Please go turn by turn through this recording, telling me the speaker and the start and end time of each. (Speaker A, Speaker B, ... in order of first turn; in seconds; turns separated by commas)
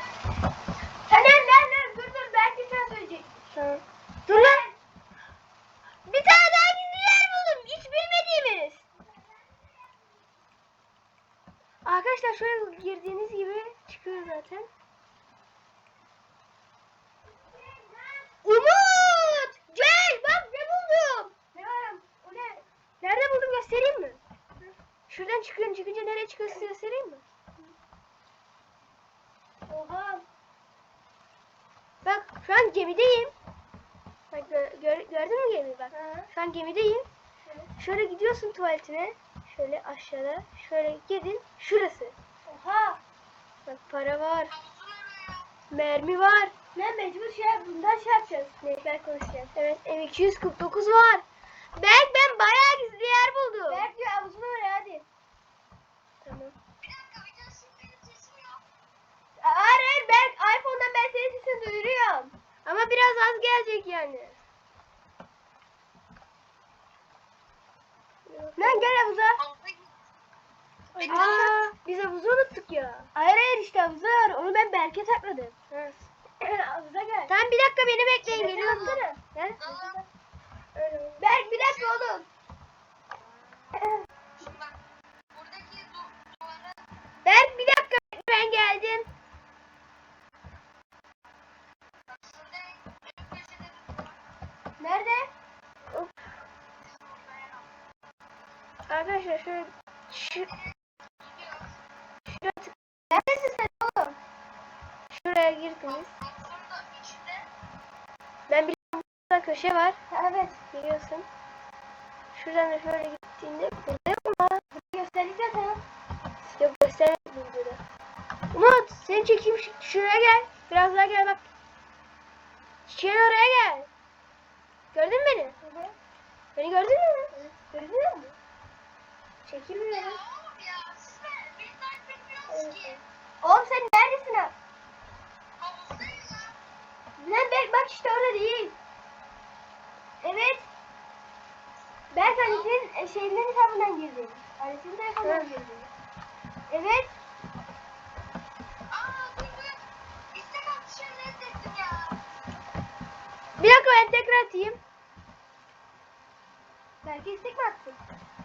Speaker A: 1.1-3.3, Speaker B: 3.5-4.6, Speaker A: 4.3-4.7, Speaker B: 6.1-8.8, Speaker B: 11.8-14.7, Speaker A: 17.5-18.4, Speaker B: 18.4-21.3, Speaker A: 21.5-22.6, Speaker B: 23.0-24.2, Speaker B: 25.1-27.2, Speaker A: 29.7-30.2, Speaker B: 32.0-33.3, Speaker B: 34.3-37.1, Speaker A: 35.9-36.3, Speaker B: 37.8-42.1, Speaker A: 42.5-43.0, Speaker B: 43.7-44.6, Speaker C: 44.8-45.4, Speaker B: 45.7-46.5, Speaker A: 46.8-49.5, Speaker B: 49.6-51.2, Speaker B: 51.8-53.9, Speaker A: 53.7-55.0, Speaker B: 56.2-56.6, Speaker C: 56.9-58.6, Speaker A: 59.4-62.4, Speaker B: 62.6-64.4, Speaker B: 68.3-68.9, Speaker A: 68.6-69.4, Speaker A: 70.9-71.6, Speaker B: 71.0-73.1, Speaker A: 73.2-75.5, Speaker B: 75.7-76.1, Speaker A: 76.4-77.3, Speaker B: 77.3-79.6, Speaker A: 78.2-80.1, Speaker B: 80.8-81.2, Speaker A: 81.2-82.3, Speaker A: 83.7-84.0, Speaker C: 85.3-86.7, Speaker B: 87.2-89.1, Speaker C: 92.3-94.1, Speaker A: 94.8-95.3, Speaker B: 98.9-100.6, Speaker B: 102.3-102.8, Speaker A: 103.1-104.2, Speaker B: 105.1-106.1, Speaker C: 106.3-107.4, Speaker B: 108.5-110.0, Speaker A: 110.1-110.6, Speaker B: 110.7-111.3, Speaker B: 112.3-114.6, Speaker A: 114.7-115.8, Speaker B: 116.5-117.8, Speaker B: 118.5-121.4, Speaker B: 122.9-123.9, Speaker B: 124.9-125.6, Speaker A: 125.6-126.0, Speaker B: 126.6-127.3, Speaker A: 127.3-128.3, Speaker B: 129.5-130.2, Speaker C: 130.3-132.4, Speaker B: 132.5-133.0, Speaker A: 133.4-134.5, Speaker C: 135.6-136.5, Speaker A: 137.2-138.8, Speaker A: 140.2-140.7, Speaker A: 142.1-145.9, Speaker B: 145.2-145.5, Speaker A: 146.7-147.1, Speaker C: 148.9-149.8, Speaker C: 150.3-152.2, Speaker B: 153.6-154.8, Speaker A: 157.0-158.0